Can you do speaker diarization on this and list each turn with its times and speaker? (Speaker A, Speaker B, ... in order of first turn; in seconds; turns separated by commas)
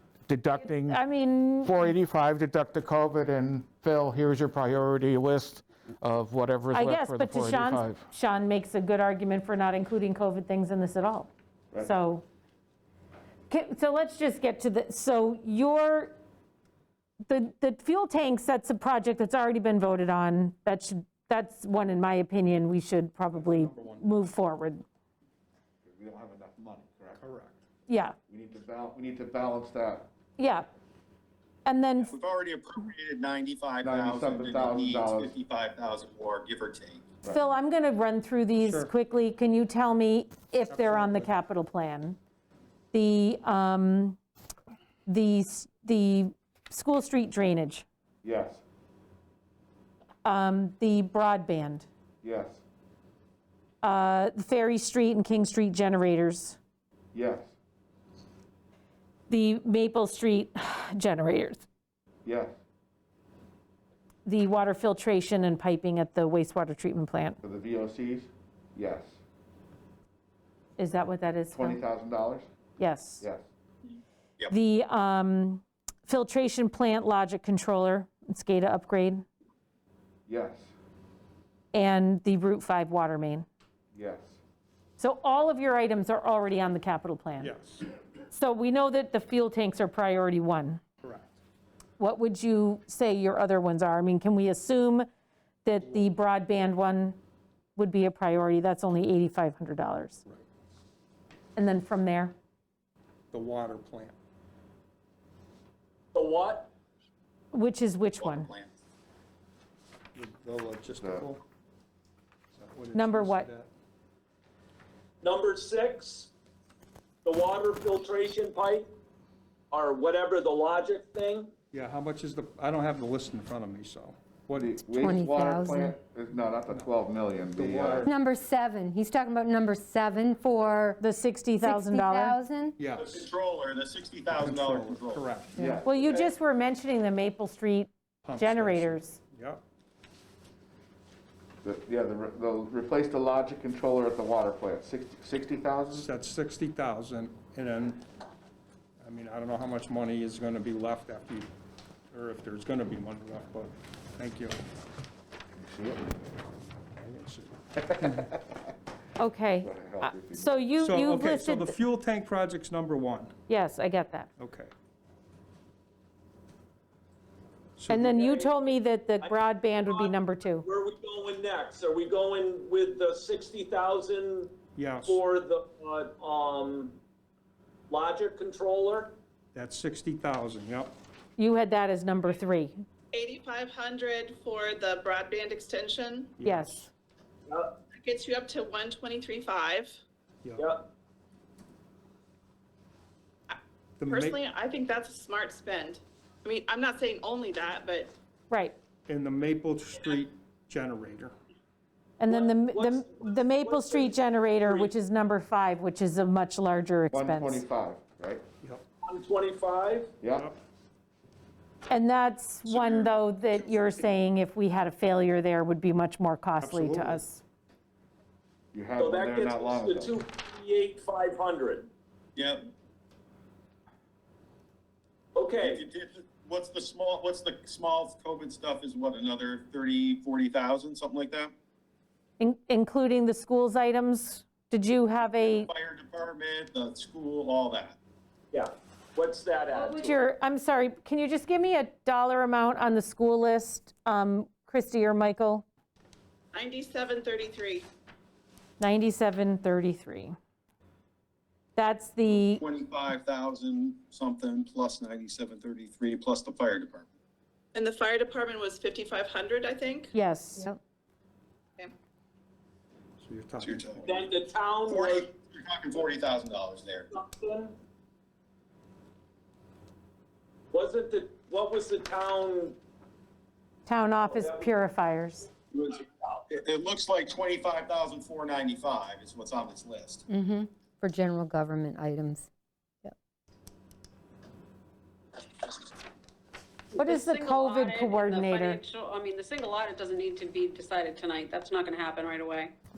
Speaker A: 0.3-1.0, Speaker B: 0.6-1.9, Speaker A: 1.6-8.0, Speaker B: 6.7-12.2, Speaker B: 13.5-16.1, Speaker B: 17.3-24.8, Speaker C: 23.3-24.1, Speaker D: 25.8-27.2, Speaker C: 27.2-27.6, Speaker B: 27.9-28.1, Speaker D: 28.3-30.1, Speaker B: 30.4-30.7, Speaker B: 31.6-32.1, Speaker E: 32.1-37.1, Speaker D: 33.8-35.3, Speaker B: 37.3-42.2, Speaker C: 38.6-38.9, Speaker C: 40.6-41.3, Speaker B: 42.9-44.2, Speaker B: 45.0-47.8, Speaker D: 48.2-48.6, Speaker B: 50.2-51.9, Speaker D: 52.2-52.6, Speaker B: 53.8-56.6, Speaker D: 57.1-57.5, Speaker B: 59.3-61.6, Speaker D: 62.2-62.5, Speaker B: 64.2-67.4, Speaker D: 67.4-69.2, Speaker B: 70.8-71.8, Speaker D: 71.5-72.5, Speaker B: 72.8-73.2, Speaker B: 74.5-79.2, Speaker D: 80.3-80.7, Speaker B: 81.7-83.5, Speaker D: 83.9-84.4, Speaker B: 85.0-87.5, Speaker C: 87.4-87.8, Speaker B: 88.3-90.8, Speaker C: 91.0-91.3, Speaker B: 92.0-95.1, Speaker B: 95.6-97.2, Speaker C: 95.8-96.1, Speaker B: 97.8-100.2, Speaker B: 101.5-102.3, Speaker C: 103.3-104.1, Speaker F: 106.1-106.7, Speaker B: 107.5-108.5, Speaker E: 108.2-108.7, Speaker C: 110.1-111.4, Speaker D: 111.0-111.3, Speaker C: 112.5-113.7, Speaker B: 112.9-113.5, Speaker F: 115.2-116.3, Speaker F: 117.2-118.9, Speaker F: 119.7-121.5, Speaker C: 121.7-124.8, Speaker D: 124.5-128.1, Speaker G: 124.9-126.0, Speaker C: 127.5-128.1, Speaker G: 128.0-131.0, Speaker B: 131.0-132.4, Speaker G: 131.6-132.8, Speaker C: 132.8-133.3, Speaker E: 132.9-135.2, Speaker C: 134.3-135.6, Speaker D: 135.5-135.9, Speaker G: 135.6-136.1, Speaker B: 135.8-139.2, Speaker C: 138.2-139.6, Speaker D: 141.6-146.1, Speaker C: 145.9-148.0, Speaker C: 149.0-151.5, Speaker C: 152.1-154.6, Speaker D: 155.5-156.2, Speaker C: 157.0-158.3, Speaker D: 158.0-158.4, Speaker B: 159.2-161.7, Speaker D: 159.6-160.9, Speaker C: 160.8-163.3, Speaker B: 163.5-164.3, Speaker C: 164.4-164.7, Speaker C: 167.8-168.1, Speaker B: 167.9-170.7, Speaker F: 167.9-168.7, Speaker F: 169.2-177.0, Speaker C: 174.8-175.2, Speaker F: 177.9-179.2, Speaker C: 179.5-180.9, Speaker B: 181.4-182.8, Speaker H: 183.1-186.3, Speaker C: 186.4-186.8, Speaker B: 186.4-186.9, Speaker F: 187.5-187.7, Speaker H: 187.9-190.0, Speaker F: 190.6-190.8, Speaker C: 194.0-194.4, Speaker H: 194.1-198.1, Speaker B: 198.5-198.8, Speaker C: 199.1-201.3, Speaker B: 202.2-207.7, Speaker F: 202.3-204.9, Speaker D: 207.1-208.4, Speaker F: 209.0-210.1, Speaker D: 210.2-210.5, Speaker C: 210.3-210.6, Speaker B: 211.9-217.4, Speaker E: 212.7-213.2, Speaker C: 216.6-217.2, Speaker D: 218.7-220.2, Speaker F: 219.0-221.9, Speaker E: 222.3-222.7, Speaker F: 225.3-225.8, Speaker E: 225.6-231.5, Speaker B: 232.4-235.7, Speaker E: 235.3-238.0, Speaker F: 238.5-240.2, Speaker B: 239.7-245.7, Speaker H: 246.5-247.9, Speaker B: 248.8-250.3, Speaker B: 251.8-252.6, Speaker E: 252.4-257.1, Speaker H: 257.7-260.1, Speaker B: 260.1-260.7, Speaker C: 263.2-264.1, Speaker E: 263.6-264.2, Speaker F: 264.0-265.3, Speaker E: 264.9-267.1, Speaker F: 267.1-267.7, Speaker F: 270.7-272.8, Speaker B: 273.9-275.5, Speaker F: 274.2-274.7, Speaker F: 275.7-276.4, Speaker E: 276.5-280.2, Speaker G: 280.3-282.5, Speaker I: 286.9-292.7, Speaker B: 286.9-288.8